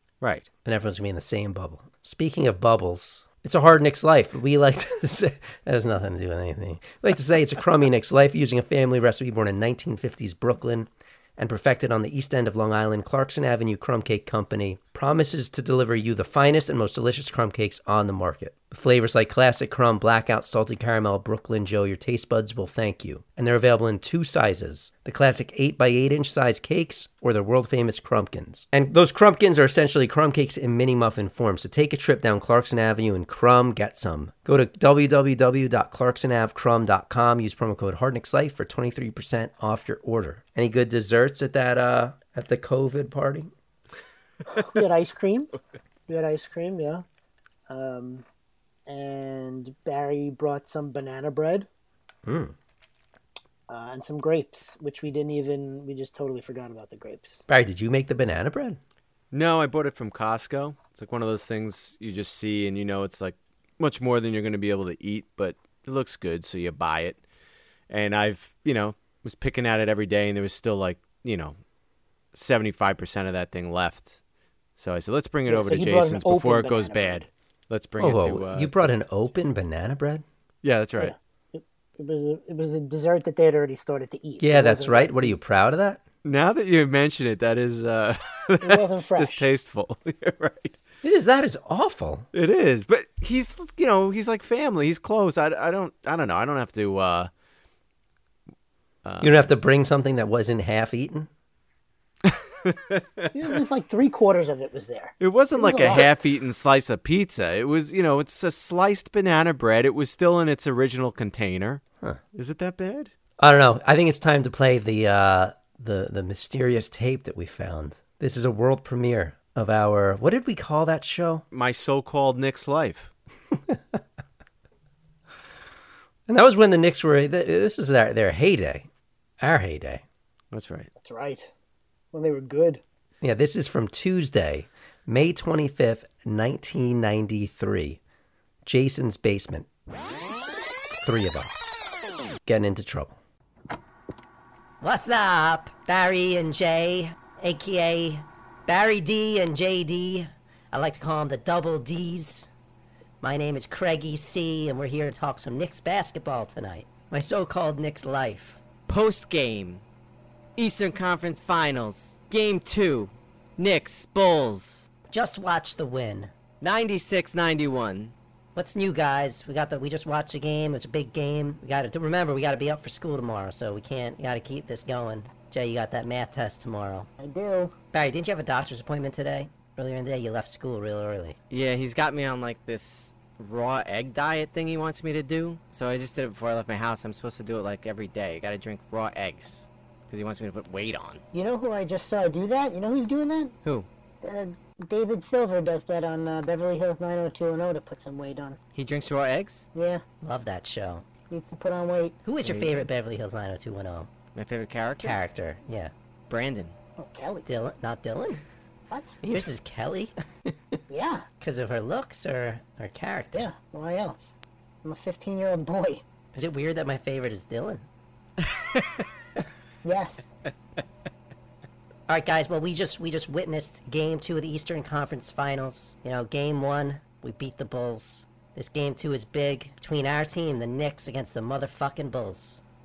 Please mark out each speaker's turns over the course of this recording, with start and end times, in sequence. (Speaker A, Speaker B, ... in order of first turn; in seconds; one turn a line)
Speaker A: 0.2-0.5
Speaker B: 0.6-43.5
Speaker C: 44.6-45.5
Speaker C: 46.1-47.0
Speaker C: 47.7-48.2
Speaker C: 48.9-51.7
Speaker B: 52.2-52.5
Speaker C: 53.7-57.4
Speaker B: 57.5-58.8
Speaker A: 59.3-67.2
Speaker A: 67.9-71.6
Speaker A: 72.3-74.2
Speaker A: 74.8-79.3
Speaker C: 75.5-77.2
Speaker B: 78.0-80.2
Speaker A: 80.6-81.1
Speaker C: 81.0-85.3
Speaker B: 84.4-86.0
Speaker A: 86.2-90.8
Speaker C: 88.6-89.5
Speaker B: 91.0-92.3
Speaker A: 92.3-97.3
Speaker A: 99.0-99.5
Speaker B: 99.2-101.3
Speaker A: 102.2-103.3
Speaker C: 103.3-106.1
Speaker A: 105.2-111.8
Speaker A: 112.3-113.1
Speaker B: 113.4-121.4
Speaker A: 121.5-123.1
Speaker B: 123.7-124.0
Speaker B: 126.3-128.9
Speaker B: 129.4-130.0
Speaker A: 130.5-130.9
Speaker C: 131.0-131.5
Speaker C: 132.1-132.8
Speaker B: 133.2-138.0
Speaker B: 138.6-139.7
Speaker B: 141.0-141.7
Speaker B: 142.4-143.2
Speaker D: 144.8-152.5
Speaker D: 153.2-158.6
Speaker E: 158.9-159.8
Speaker E: 160.6-164.9
Speaker D: 165.1-166.3
Speaker E: 166.6-168.1
Speaker D: 168.6-177.1
Speaker C: 177.2-177.7
Speaker D: 177.9-181.4
Speaker E: 181.5-191.2
Speaker C: 191.3-193.5
Speaker C: 194.2-198.6
Speaker E: 198.7-199.7
Speaker C: 199.7-200.0
Speaker D: 200.2-201.1
Speaker C: 201.3-202.2
Speaker D: 202.2-204.1
Speaker E: 202.4-202.8
Speaker E: 204.3-205.2
Speaker D: 205.0-205.9
Speaker E: 206.3-206.7
Speaker C: 207.0-207.5
Speaker D: 207.4-208.4
Speaker C: 208.9-209.2
Speaker D: 209.2-210.8
Speaker C: 210.9-211.2
Speaker D: 211.4-213.5
Speaker C: 213.3-216.0
Speaker D: 216.3-217.8
Speaker E: 218.4-218.8
Speaker C: 219.8-220.3
Speaker D: 222.1-232.6